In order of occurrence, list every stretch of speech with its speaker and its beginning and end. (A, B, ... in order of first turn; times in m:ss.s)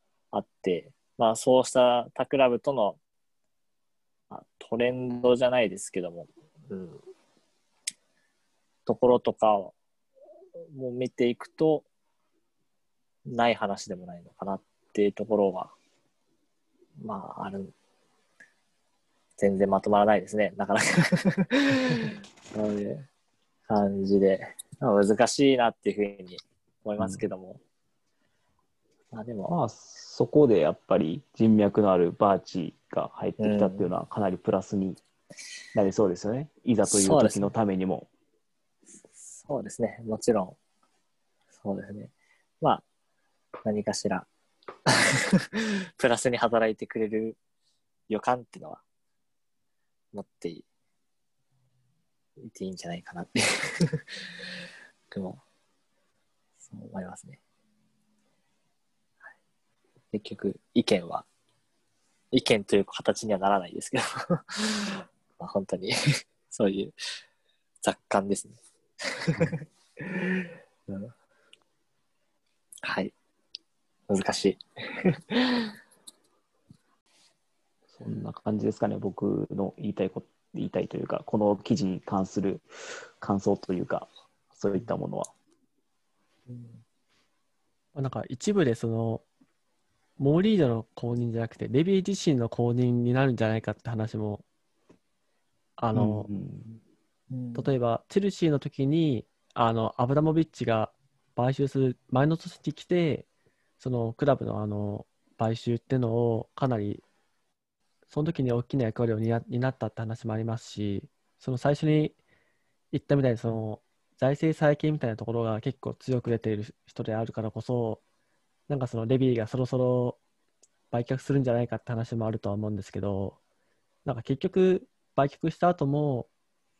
0:00.3-0:03.0 A
0:04.3-0:07.0 A
0:08.9-0:09.7 A
0:10.7-0:11.9 A
0:13.3-0:15.7 A
0:17.0-0:17.7 A
0:19.4-0:23.1 A
0:23.7-0:27.6 A
0:29.1-0:29.5 A
0:29.5-0:35.0 B
0:33.4-0:33.9 A
0:35.8-0:38.1 B
0:36.9-0:37.5 A
0:39.2-0:40.6 A
0:41.6-0:42.8 A
0:43.6-0:44.3 A
0:44.9-0:47.4 A
0:48.1-0:48.8 A
0:50.1-0:50.6 A
0:52.4-0:54.2 A
0:55.1-0:55.4 A
0:56.7-0:57.4 A
1:00.1-1:01.3 A
1:02.3-1:07.0 A
1:07.8-1:11.1 A
1:12.8-1:13.1 A
1:14.1-1:15.7 A
1:18.0-1:22.6 B
1:23.2-1:25.3 B
1:26.5-1:26.8 A
1:28.0-1:29.2 C
1:30.2-1:34.4 C
1:35.8-1:36.3 C
1:35.9-1:36.7 B
1:37.3-1:37.7 A
1:37.6-1:43.3 C
1:43.8-1:47.0 C
1:48.1-1:52.2 C
1:52.9-1:58.0 C
1:58.7-2:00.2 C
2:00.9-2:03.4 C
2:04.0-2:06.3 C